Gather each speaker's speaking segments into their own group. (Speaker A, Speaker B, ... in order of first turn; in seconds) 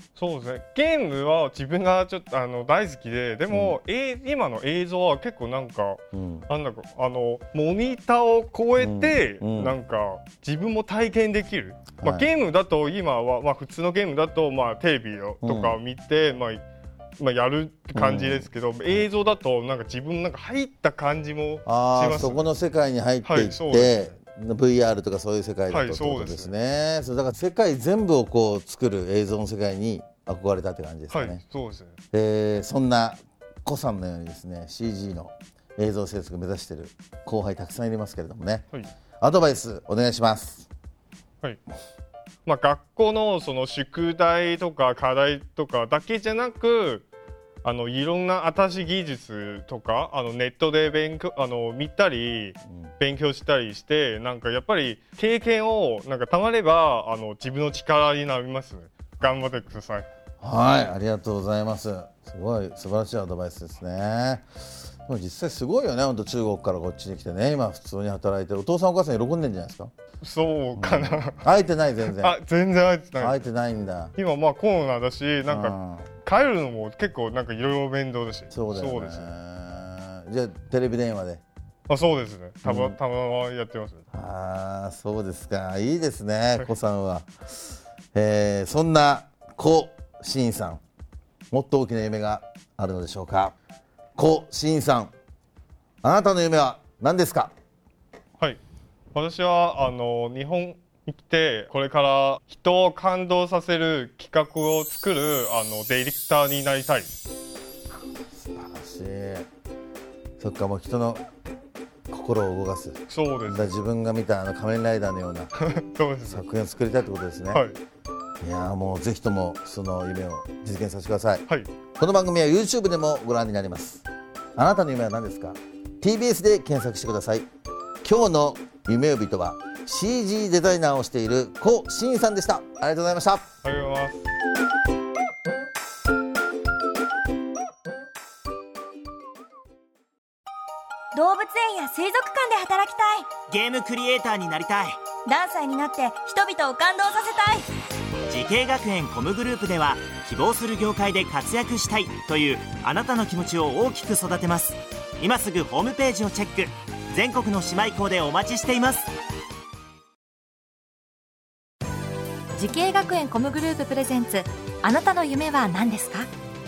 Speaker A: 0.1-16.6, 17.2-22.5, 23.2-24.1, 25.7-26.5, 31.1-32.0, 42.4-47.0, 47.6-60.1, 70.2-71.5, 72.1-73.5, 74.2-79.3, 81.9-84.0, 99.1-107.1, 113.1-113.7, 115.6-116.5, 117.5-117.8, 133.6-134.2
Speaker B: 3.5-3.8, 6.1-6.5, 8.8-9.8, 12.0-12.3, 15.4-15.8, 17.9-19.0, 21.6-31.4, 32.1-40.7, 60.4-64.5, 65.0-69.9, 70.7-72.4, 73.2-74.1, 75.5-76.1, 78.5-81.4, 82.6-83.0, 84.1-87.3, 88.1-90.8, 91.5-93.5, 94.2-95.1, 96.0-97.5, 108.3-109.5, 110.4-111.2, 112.1-115.5, 116.3-117.7, 118.4-121.4, 122.0-127.5, 128.0-133.4
Speaker C: 141.1-143.3, 145.2-147.7
Speaker D: 143.5-145.0, 148.3-159.1
Speaker E: 162.6-166.3